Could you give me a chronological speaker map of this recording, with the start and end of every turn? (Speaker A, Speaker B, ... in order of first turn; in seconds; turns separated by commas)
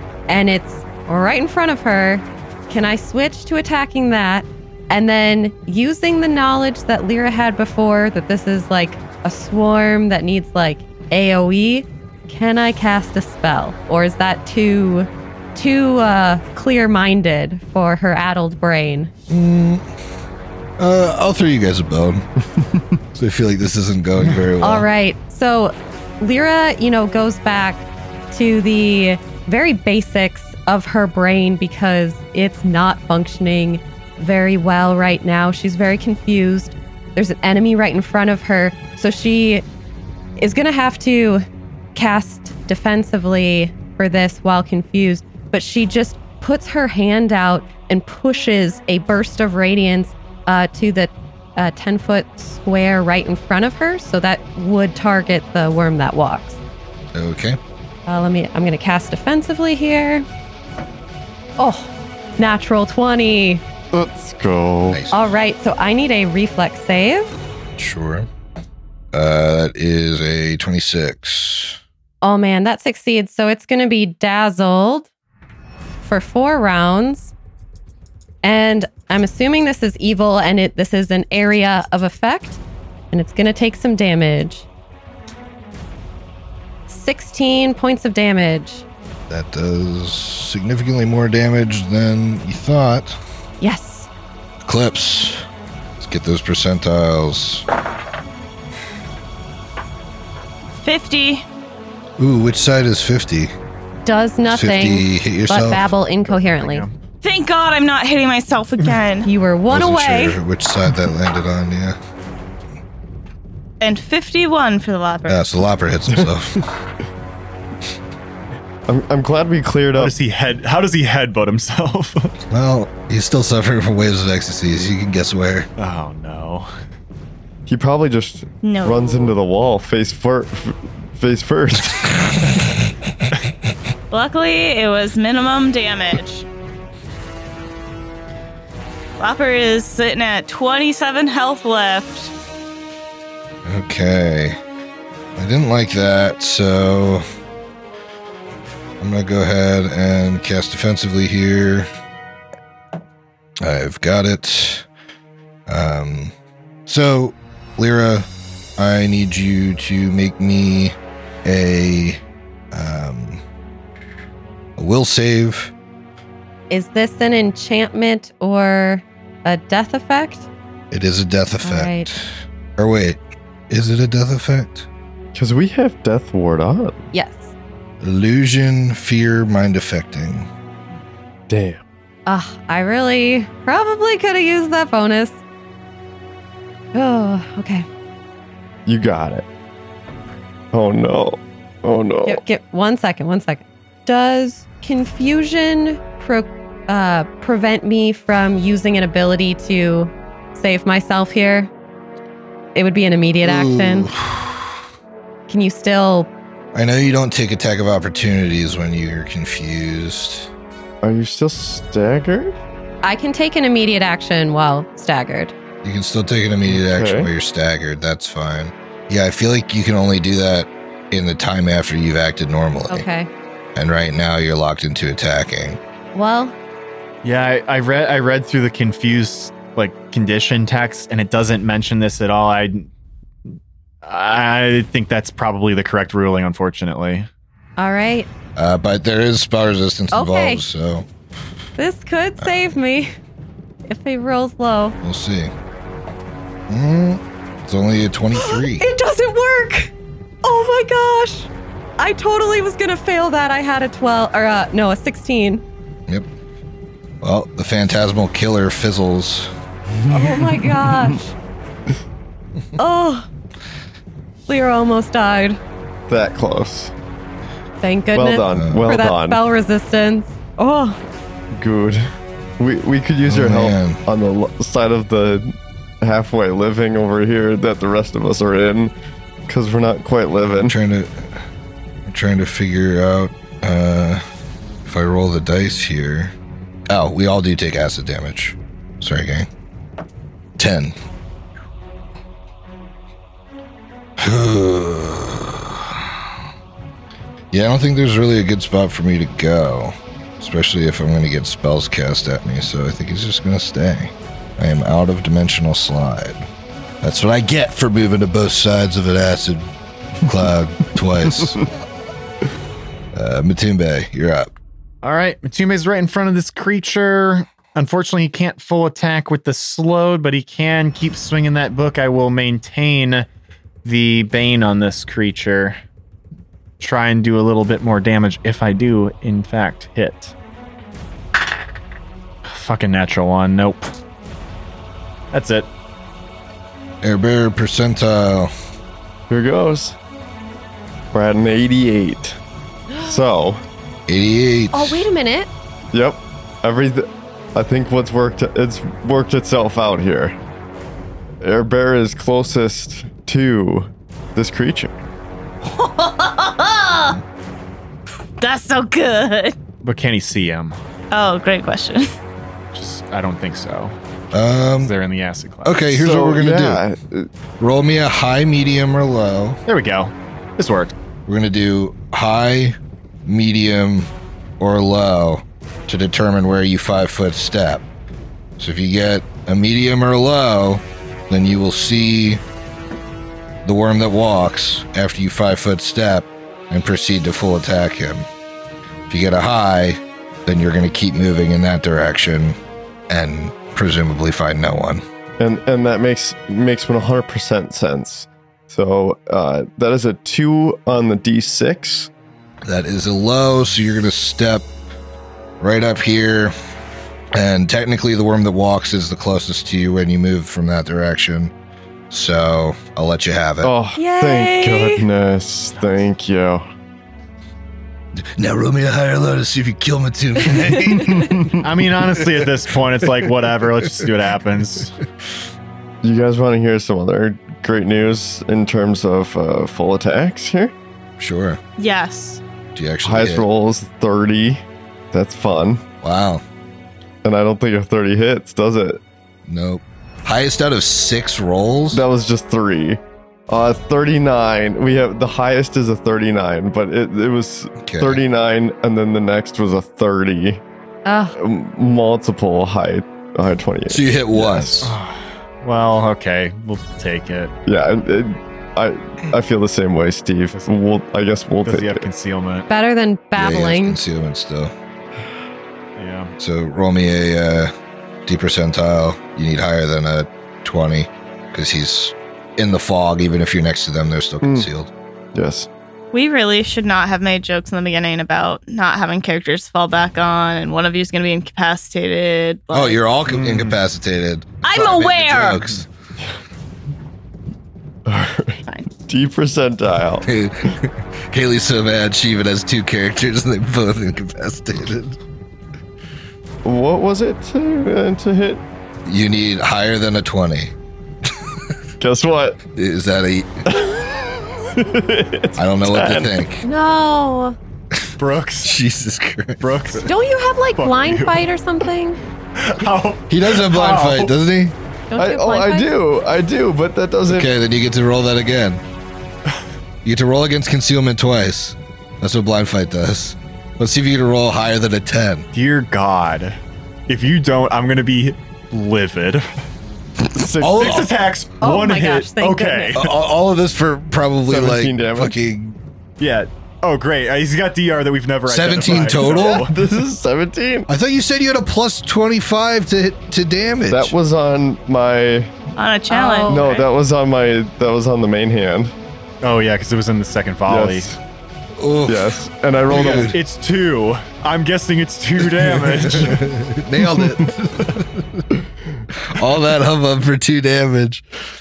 Speaker A: 0.3-19.1, Speaker B: 19.3-19.9, Speaker B: 20.8-22.2, Speaker B: 23.1-24.9, Speaker A: 24.6-39.6, Speaker A: 40.4-56.6, Speaker B: 57.1-57.6, Speaker A: 58.1-60.2, Speaker A: 61.6-63.6, Speaker C: 63.9-65.0, Speaker B: 64.9-65.2, Speaker A: 65.1-67.3, Speaker B: 67.8-68.3, Speaker B: 69.1-71.8, Speaker A: 72.2-75.1, Speaker A: 76.0-77.3, Speaker A: 78.4-82.6, Speaker A: 83.1-84.7, Speaker A: 86.9-88.8, Speaker B: 89.3-93.2, Speaker A: 93.6-94.1, Speaker B: 94.6-95.4, Speaker B: 96.0-97.6, Speaker D: 100.8-101.5, Speaker B: 102.2-103.5, Speaker A: 104.0-106.8, Speaker B: 104.4-105.9, Speaker E: 106.2-106.9, Speaker D: 107.2-109.3, Speaker A: 109.2-110.4, Speaker B: 109.7-112.0, Speaker D: 113.8-115.5, Speaker B: 115.3-116.6, Speaker C: 118.9-120.1, Speaker E: 120.0-122.3, Speaker B: 122.5-125.7, Speaker E: 125.8-126.7, Speaker C: 127.7-132.1, Speaker D: 128.6-129.3, Speaker D: 134.1-136.4, Speaker D: 139.2-142.3, Speaker B: 143.6-144.6, Speaker B: 145.3-147.2, Speaker B: 149.0-151.9, Speaker B: 153.6-154.9, Speaker B: 155.7-156.3, Speaker B: 156.8-162.2, Speaker B: 162.7-163.4, Speaker B: 164.8-165.7, Speaker A: 166.7-170.5, Speaker B: 170.9-173.2, Speaker A: 171.6-172.1, Speaker B: 173.7-174.9, Speaker C: 175.3-177.0, Speaker A: 177.1-177.5, Speaker B: 178.0-180.5, Speaker C: 181.5-181.8, Speaker A: 182.2-185.4, Speaker A: 186.9-187.9, Speaker C: 188.8-189.4, Speaker C: 190.7-192.4, Speaker A: 192.2-201.7, Speaker A: 202.7-204.1, Speaker B: 203.4-204.7, Speaker A: 205.5-206.3, Speaker B: 206.7-210.5, Speaker C: 211.0-212.6, Speaker A: 213.0-215.5, Speaker B: 215.8-223.1, Speaker C: 216.7-217.3, Speaker A: 222.9-223.3, Speaker B: 223.8-225.8, Speaker A: 226.1-226.5, Speaker E: 227.2-232.9, Speaker E: 234.0-237.3, Speaker A: 237.8-238.3, Speaker B: 238.6-241.1, Speaker A: 240.1-240.6, Speaker A: 241.8-243.1, Speaker A: 243.9-245.0, Speaker B: 245.0-245.5, Speaker B: 246.7-248.8, Speaker A: 248.3-249.9, Speaker A: 250.4-255.6, Speaker B: 257.2-259.5, Speaker C: 260.1-261.1, Speaker A: 260.1-261.3, Speaker A: 262.8-263.3, Speaker A: 264.5-265.6, Speaker C: 266.1-266.9, Speaker A: 267.8-271.0, Speaker C: 268.1-269.4, Speaker B: 268.5-268.8, Speaker C: 271.5-272.1, Speaker C: 272.6-278.9, Speaker B: 273.2-274.0, Speaker C: 279.5-280.8, Speaker B: 280.6-281.4, Speaker B: 282.1-284.2, Speaker B: 284.8-286.3, Speaker B: 286.9-289.5, Speaker B: 290.6-290.9, Speaker B: 294.2-296.3, Speaker B: 297.5-306.4, Speaker B: 307.0-309.7, Speaker B: 310.2-311.6, Speaker C: 311.3-311.6, Speaker B: 313.1-314.5, Speaker E: 315.0-323.2, Speaker E: 323.8-325.8, Speaker E: 326.8-330.3, Speaker E: 332.4-333.9, Speaker E: 335.3-335.7, Speaker B: 337.0-338.5, Speaker C: 339.3-340.0, Speaker C: 341.1-342.4, Speaker C: 343.0-343.6, Speaker B: 344.1-345.1, Speaker A: 344.7-345.5, Speaker C: 345.9-350.4, Speaker C: 351.4-355.0, Speaker D: 355.6-357.2, Speaker D: 358.4-359.6, Speaker E: 359.8-360.8, Speaker D: 361.1-362.1, Speaker E: 362.7-363.9, Speaker B: 364.3-364.9, Speaker E: 364.7-366.0, Speaker B: 365.6-366.8, Speaker C: 365.9-367.3, Speaker B: 367.6-369.6, Speaker E: 369.7-370.9, Speaker B: 371.3-377.8, Speaker B: 378.6-382.4, Speaker B: 383.6-388.3, Speaker B: 389.1-392.6, Speaker B: 393.1-395.0, Speaker C: 395.4-402.1, Speaker B: 402.6-404.7, Speaker B: 405.6-406.5, Speaker B: 407.3-411.5, Speaker B: 412.1-413.7, Speaker C: 413.6-416.6, Speaker A: 413.9-415.1, Speaker E: 415.8-416.0, Speaker B: 418.2-421.4, Speaker A: 420.7-421.0, Speaker E: 421.6-424.9, Speaker C: 426.0-430.7, Speaker B: 431.2-431.6, Speaker D: 431.8-432.4, Speaker B: 432.7-433.4, Speaker C: 433.0-435.8, Speaker B: 436.0-436.4, Speaker C: 437.2-439.0, Speaker B: 439.5-442.0, Speaker C: 441.9-450.6, Speaker B: 447.8-448.2, Speaker A: 451.0-451.3, Speaker C: 451.3-454.9, Speaker B: 453.9-454.9, Speaker E: 454.8-457.5, Speaker C: 457.6-462.1, Speaker E: 461.6-462.7, Speaker A: 462.7-464.0, Speaker B: 463.3-464.7, Speaker E: 466.0-466.3, Speaker B: 466.4-467.7, Speaker B: 468.2-474.9, Speaker C: 474.4-474.7, Speaker C: 475.3-475.7, Speaker D: 476.1-483.0, Speaker B: 482.7-485.9, Speaker E: 483.3-483.8, Speaker D: 484.6-485.6, Speaker C: 488.1-490.3, Speaker B: 490.2-495.2, Speaker C: 496.6-498.6, Speaker B: 499.1-500.7, Speaker C: 502.0-502.6, Speaker B: 502.8-503.7, Speaker C: 503.7-506.3, Speaker B: 505.6-506.6, Speaker A: 506.6-507.6, Speaker E: 508.2-508.7, Speaker B: 508.6-510.1, Speaker E: 509.6-510.1, Speaker A: 510.1-512.2, Speaker E: 510.7-511.4, Speaker E: 512.5-514.3, Speaker B: 513.3-514.8, Speaker A: 515.1-515.9, Speaker C: 515.1-517.5, Speaker B: 517.3-518.8, Speaker B: 520.0-525.5, Speaker E: 525.5-529.6, Speaker C: 530.3-531.1, Speaker B: 530.6-531.1, Speaker E: 530.8-533.1, Speaker A: 531.6-533.0, Speaker B: 532.9-535.8, Speaker C: 534.5-535.4, Speaker E: 536.2-539.7, Speaker B: 538.5-539.6, Speaker C: 538.9-540.9, Speaker B: 540.9-544.1, Speaker C: 543.9-545.5, Speaker D: 545.8-546.9, Speaker A: 546.1-546.7, Speaker C: 546.5-548.9, Speaker E: 549.4-551.1, Speaker C: 550.6-551.2, Speaker B: 551.8-553.3, Speaker C: 552.1-553.4, Speaker E: 553.1-556.4, Speaker B: 556.0-558.4, Speaker B: 559.2-561.2